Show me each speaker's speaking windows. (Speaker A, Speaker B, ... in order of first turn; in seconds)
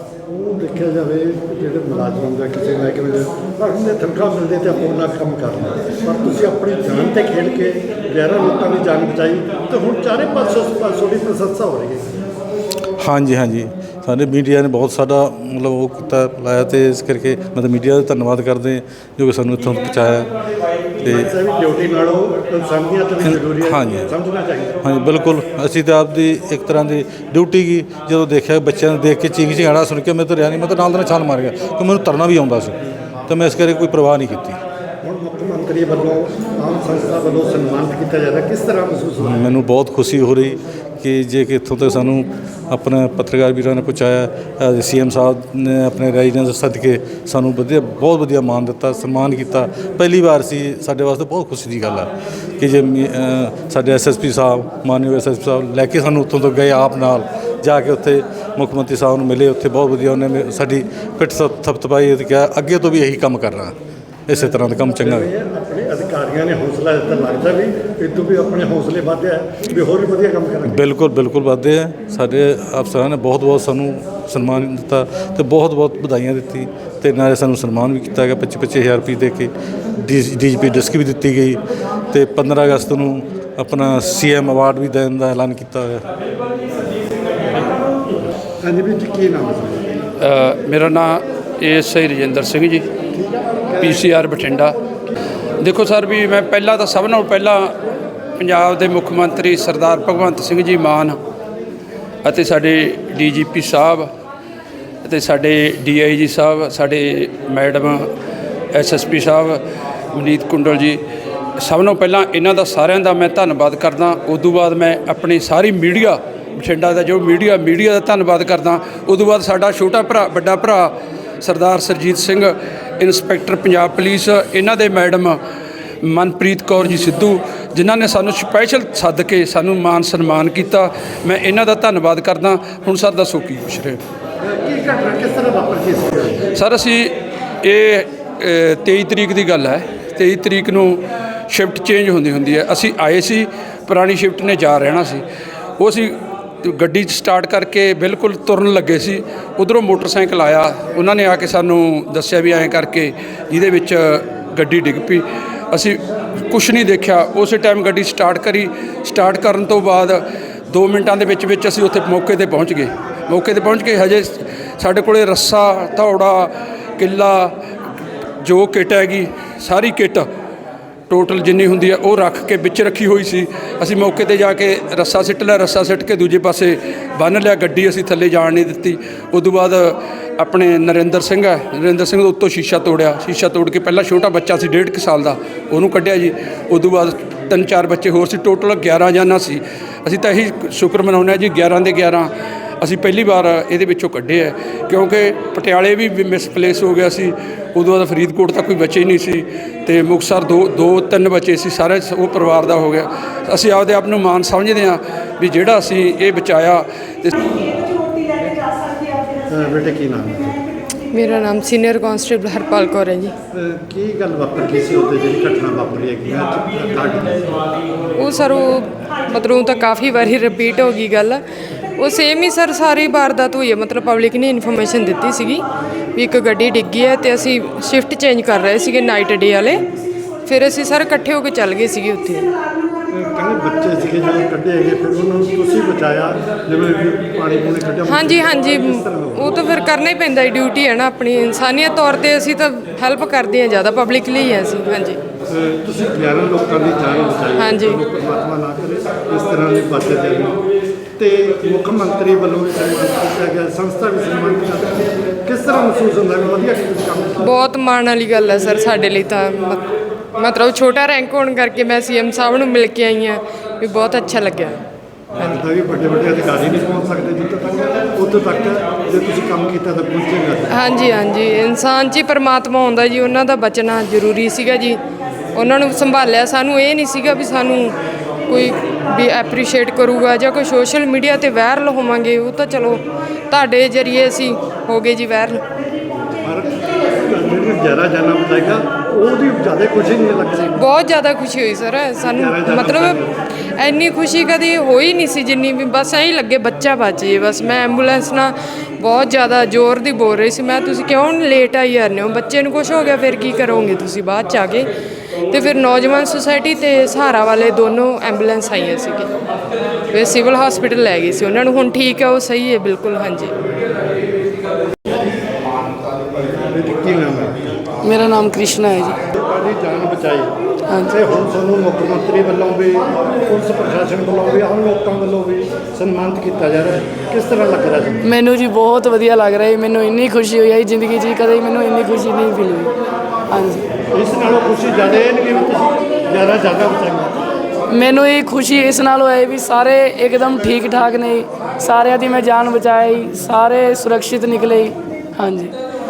Speaker A: 0.3-12.1, 21.0-24.8, 35.0-39.4, 65.0-70.8, 88.6-89.8, 93.1-94.1, 134.4-136.4, 209.5-210.6, 213.5-217.6, 233.1-239.6, 245.5-250.6, 251.2-257.4, 265.4-270.8, 286.3-286.7, 287.3-290.8, 292.2-293.3, 316.7-317.8, 319.4-320.5, 321.1-328.2, 334.1-337.4
Speaker B: 13.0-20.3, 21.0-21.3, 23.2-24.1, 24.8-32.8, 33.3-34.6, 39.2-63.7, 64.3-65.3, 70.6-79.5, 80.0-81.6, 82.1-86.0
Speaker C: 90.2-92.8, 93.8-94.8, 95.6-97.7, 98.4-101.2, 102.2-104.1, 105.0-108.1, 108.7-109.6, 110.1-111.0, 111.6-120.9, 121.4-125.3, 126.0-134.0, 136.6-137.1, 137.6-141.0, 141.5-145.2, 145.8-156.0, 156.5-160.2, 160.7-167.5, 168.4-170.2, 171.1-192.3, 192.8-207.3
Speaker D: 211.1-213.3, 218.2-221.4, 222.0-225.6, 226.1-229.8, 230.4-232.5, 238.0-245.2, 247.5-248.0, 257.4-259.9, 260.4-264.8, 270.7-275.0, 275.5-277.9, 278.5-285.6, 290.8-293.2, 293.8-304.9, 305.5-309.3, 310.1-313.5
Speaker E: 318.0-319.2, 320.9-321.4, 328.2-332.9, 333.5-333.9, 337.9-345.7